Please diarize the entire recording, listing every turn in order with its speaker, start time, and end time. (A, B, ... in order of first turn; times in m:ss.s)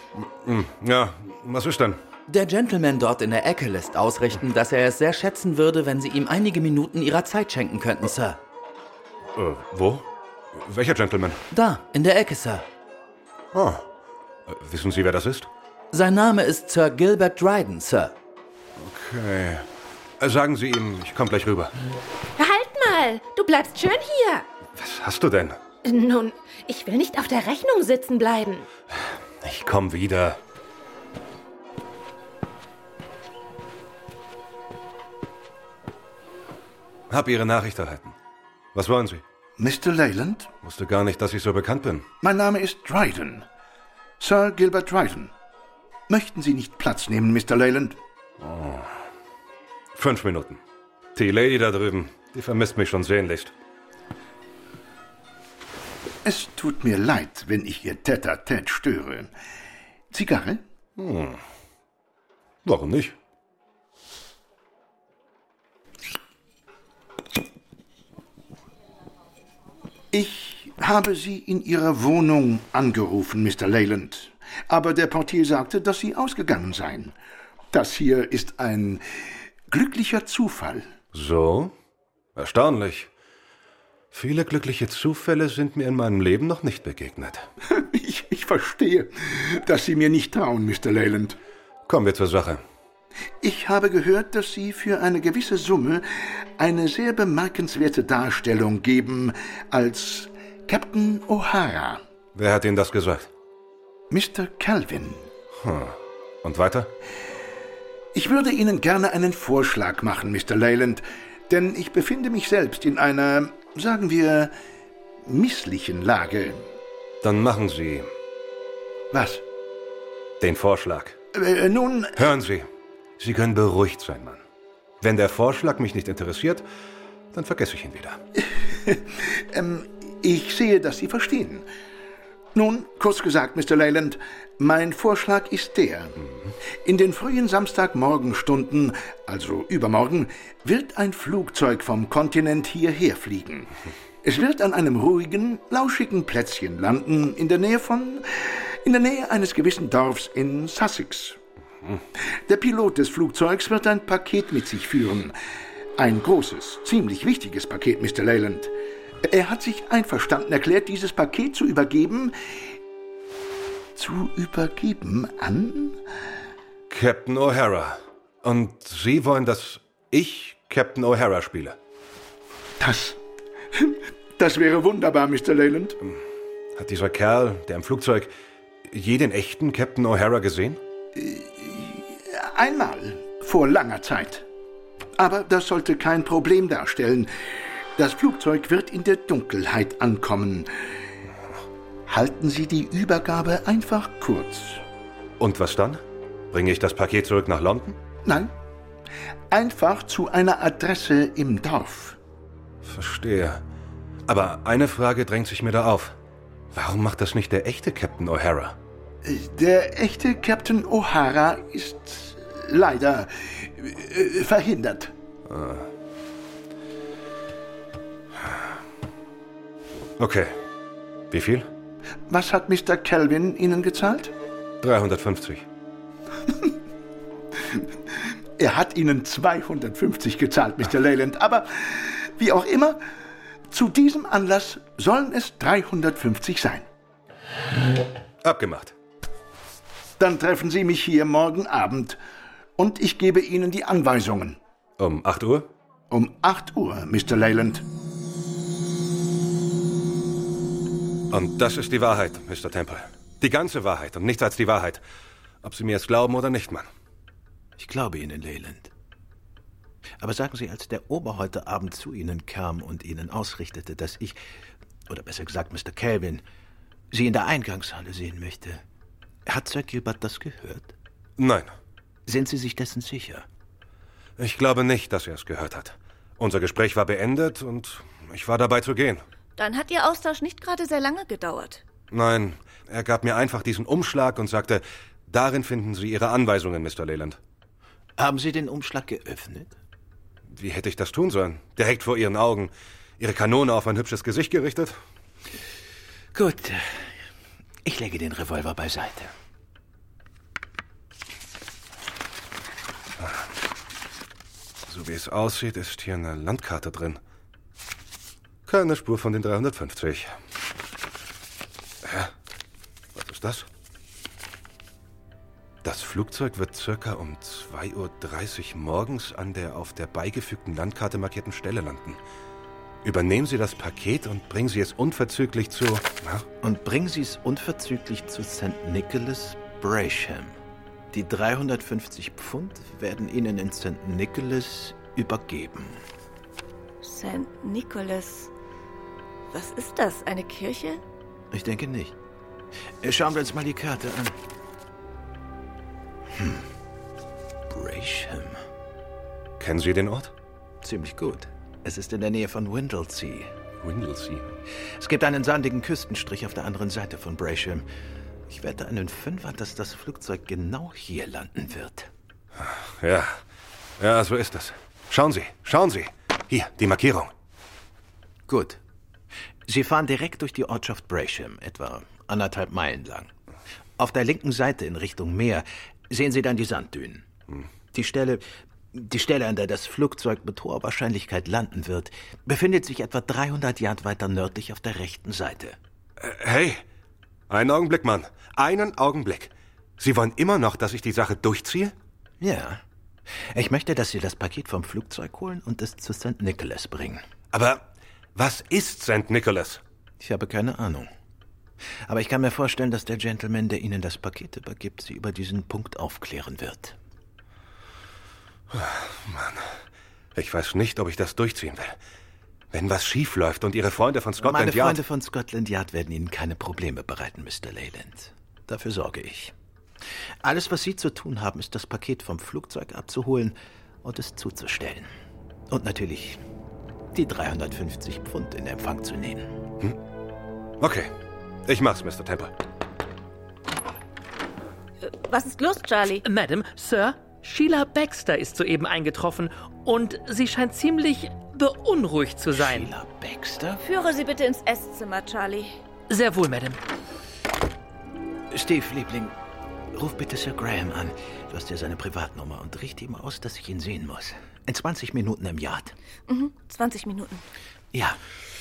0:00.2-0:02.0 A
0:02.3-0:08.4 B
0:09.4-0:11.4 A
0:11.5-0:12.6 B
0:13.5-0:13.8 A
0:14.5-0:15.5 A
0:15.9-0:18.1 B
0:18.8-0:19.6 A
0:20.2-0:21.7 A
0:22.4-0:24.4 C
0:24.8-0:25.6 A
0:25.8-0:28.7 C
0:29.4-0:30.4 A
0:37.1-0:38.1 A
0:38.7-0:39.2 A
0:39.6-0:40.5 D
0:40.6-0:42.0 A
0:42.2-0:43.4 D
0:44.2-0:45.3 D
0:46.1-0:48.0 D
0:48.4-0:48.9 A
0:49.9-0:50.6 A
0:51.1-0:53.5 A
0:56.2-0:59.3 D
1:00.1-1:00.6 D
1:01.0-1:01.4 A
1:02.6-1:03.2 A
1:10.1-1:17.1 D
1:17.7-1:19.0 D
1:19.7-1:20.8 D
1:21.1-1:21.7 A
1:22.4-1:23.1 A
1:24.1-1:27.4 A
1:27.7-1:31.4 D
1:31.9-1:32.6 A
1:33.4-1:36.0 D
1:36.6-1:42.0 D
1:42.4-1:43.3 A
1:44.1-1:45.3 D
1:45.6-1:46.9 A
1:48.1-1:54.5 D
1:55.2-1:56.6 D
1:57.2-1:58.1 A
1:59.1-1:59.4 D
2:00.4-2:01.2 A
2:01.3-2:02.3 D
2:02.2-2:02.7 A
2:03.2-2:04.4 A
2:05.0-2:06.6 A
2:07.3-2:08.2 A
2:08.4-2:11.6 D
2:12.5-2:16.2 D
2:16.8-2:23.7 D
2:24.2-2:31.4 D
2:32.5-2:35.3 D
2:36.0-2:38.7 D
2:39.2-2:42.4 D
2:44.0-2:46.0 D
2:46.9-2:51.8 A
2:52.8-2:53.2 D
2:53.8-2:56.0 D
2:56.8-2:58.3 A
2:58.9-3:00.8 A
3:01.1-3:04.4 D
3:05.2-3:07.4 D
3:07.9-3:10.7 D
3:12.1-3:14.8 D
3:15.4-3:18.0 A
3:18.2-3:18.5 D
3:19.5-3:22.2 D
3:22.8-3:23.6 A
3:24.2-3:26.1 A
3:26.7-3:28.8 A
3:29.2-3:35.1 D
3:35.5-3:35.9 A
3:40.2-3:40.5 A
3:41.3-3:41.7 A
3:42.3-3:44.3 D
3:44.8-3:45.6 A
3:48.6-3:53.0 D
3:53.7-3:56.9 D
3:58.4-3:58.9 A
4:00.2-4:02.2 D
4:02.8-4:04.6 D
4:05.0-4:05.7 A
4:06.1-4:07.8 D
4:11.3-4:15.0 A
4:15.6-4:16.9 A
4:17.8-4:18.9 E
4:20.2-4:24.4 E
4:25.1-4:26.4 E
4:27.1-4:28.8 E
4:29.4-4:30.9 E
4:31.4-4:31.7 A
4:32.2-4:33.4 E
4:34.4-4:39.2 A
4:39.6-4:41.8 F
4:42.1-4:47.4 A
4:48.2-4:49.8 E
4:50.5-4:55.0 A
4:56.3-4:57.1 E
4:57.8-4:59.3 E
5:04.9-5:07.2 A
5:08.6-5:10.3 A
5:12.0-5:12.3 A
5:13.1-5:13.7 A
5:15.8-5:22.2 A
5:23.0-5:26.4 A
5:26.6-5:30.6 E
5:31.1-5:36.0 E
5:37.0-5:38.5 F
5:39.5-5:41.0 F
5:41.5-5:42.2 E
5:43.0-5:44.4 E
5:46.3-5:46.7 E
5:47.7-5:48.6 E
5:49.6-5:50.3 A
5:50.8-5:53.5 E
5:53.8-5:54.5 A
5:55.0-5:57.8 E
5:58.5-6:02.1 E
6:02.6-6:03.4 A
6:04.0-6:07.3 A
6:08.5-6:08.8 E
6:09.7-6:13.3 E
6:14.0-6:17.3 E
6:17.9-6:25.8 E
6:26.2-6:26.8 A
6:27.5-6:31.9 A
6:32.4-6:32.8 E
6:33.4-6:37.2 E
6:37.5-6:37.8 A
6:38.4-6:39.8 A
6:40.2-6:41.1 E
6:42.0-6:47.0 E
6:48.7-6:49.7 A
6:50.3-6:52.0 A
6:52.7-6:55.0 A
6:54.4-6:59.5 E
7:00.4-7:05.1 E
7:05.7-7:06.4 E
7:07.1-7:09.5 E
7:10.8-7:11.1 A
7:11.7-7:12.5 A
7:15.0-7:16.2 F
7:16.2-7:22.9 G
7:22.5-7:23.8 E
7:23.8-7:25.8 F
7:26.1-7:26.8 G
7:28.5-7:29.4 E
7:29.9-7:36.0 E
7:36.3-7:37.4 F
7:37.9-7:38.2 E